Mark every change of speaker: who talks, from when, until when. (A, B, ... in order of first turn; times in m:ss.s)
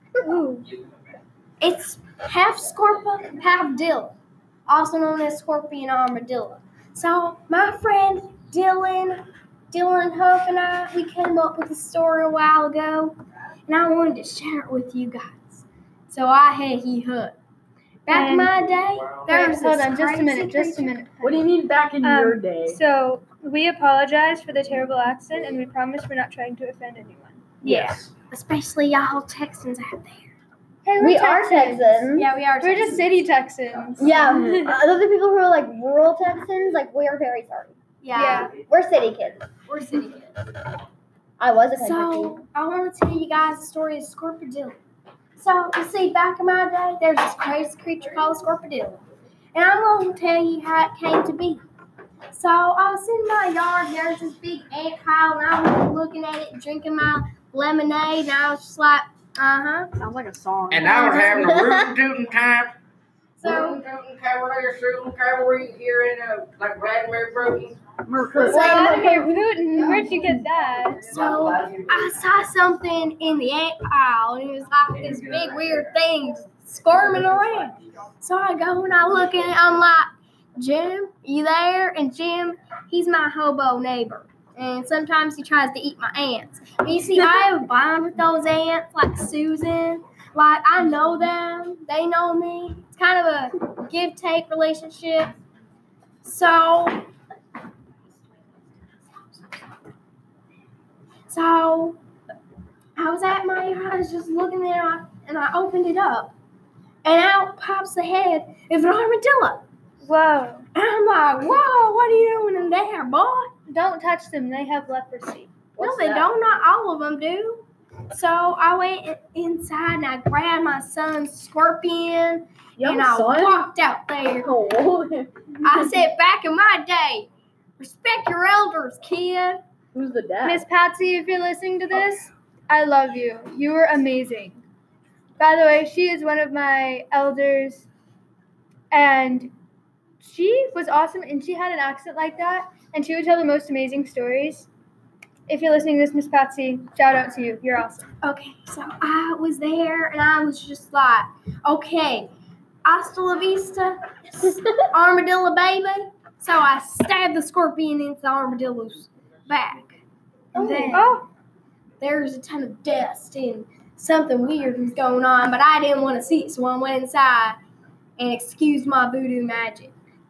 0:00.2-0:00.7 A
0:01.6-0:04.1 B
0:04.7-0:13.2 B
0:13.7-0:17.4 B
0:18.1-0:21.0 B
0:18.1-0:18.5 A
0:19.3-0:21.5 A
0:21.2-0:22.8 C
0:22.0-0:27.6 A
0:27.6-0:28.1 C
0:28.3-0:30.4 B
0:30.8-0:34.8 A
0:31.0-0:32.3 D
0:32.1-0:33.2 B
0:34.0-0:37.8 D
0:38.0-0:38.5 B
0:38.1-0:38.6 A
0:38.5-0:39.5 D
0:39.7-0:40.3 B
0:41.4-0:42.4 D
0:41.8-0:44.8 B
0:45.4-0:51.6 B
0:52.3-0:59.9 B
1:00.0-1:01.6 C
1:00.7-1:02.8 E
1:00.8-1:01.4 B
1:03.4-1:03.8 B
1:03.4-1:08.0 E
1:08.0-1:09.3 C
1:08.4-1:10.1 B
1:08.5-1:11.1 A
1:11.1-1:35.3 B
1:11.3-1:11.8 E
1:36.2-1:37.0 B
1:41.3-1:42.0 B
1:43.0-1:46.3 B
1:47.0-1:49.6 B
1:50.0-1:50.7 A
1:50.8-1:53.5 B
1:53.7-1:55.6 A
1:55.8-1:56.3 C
1:55.8-2:04.5 B
2:02.8-2:03.6 C
2:04.4-2:05.3 C
2:05.6-2:07.3 B
2:07.8-2:09.6 B
2:09.9-2:10.6 C
2:10.4-2:14.6 A
2:15.4-2:17.9 A
2:18.9-2:19.5 A
2:20.2-2:24.7 A
2:25.5-2:28.1 A
2:28.2-2:32.3 B
2:32.8-2:40.0 B
2:40.5-2:41.2 B
2:40.6-2:41.3 A
2:42.0-2:47.6 B
2:48.2-2:49.9 B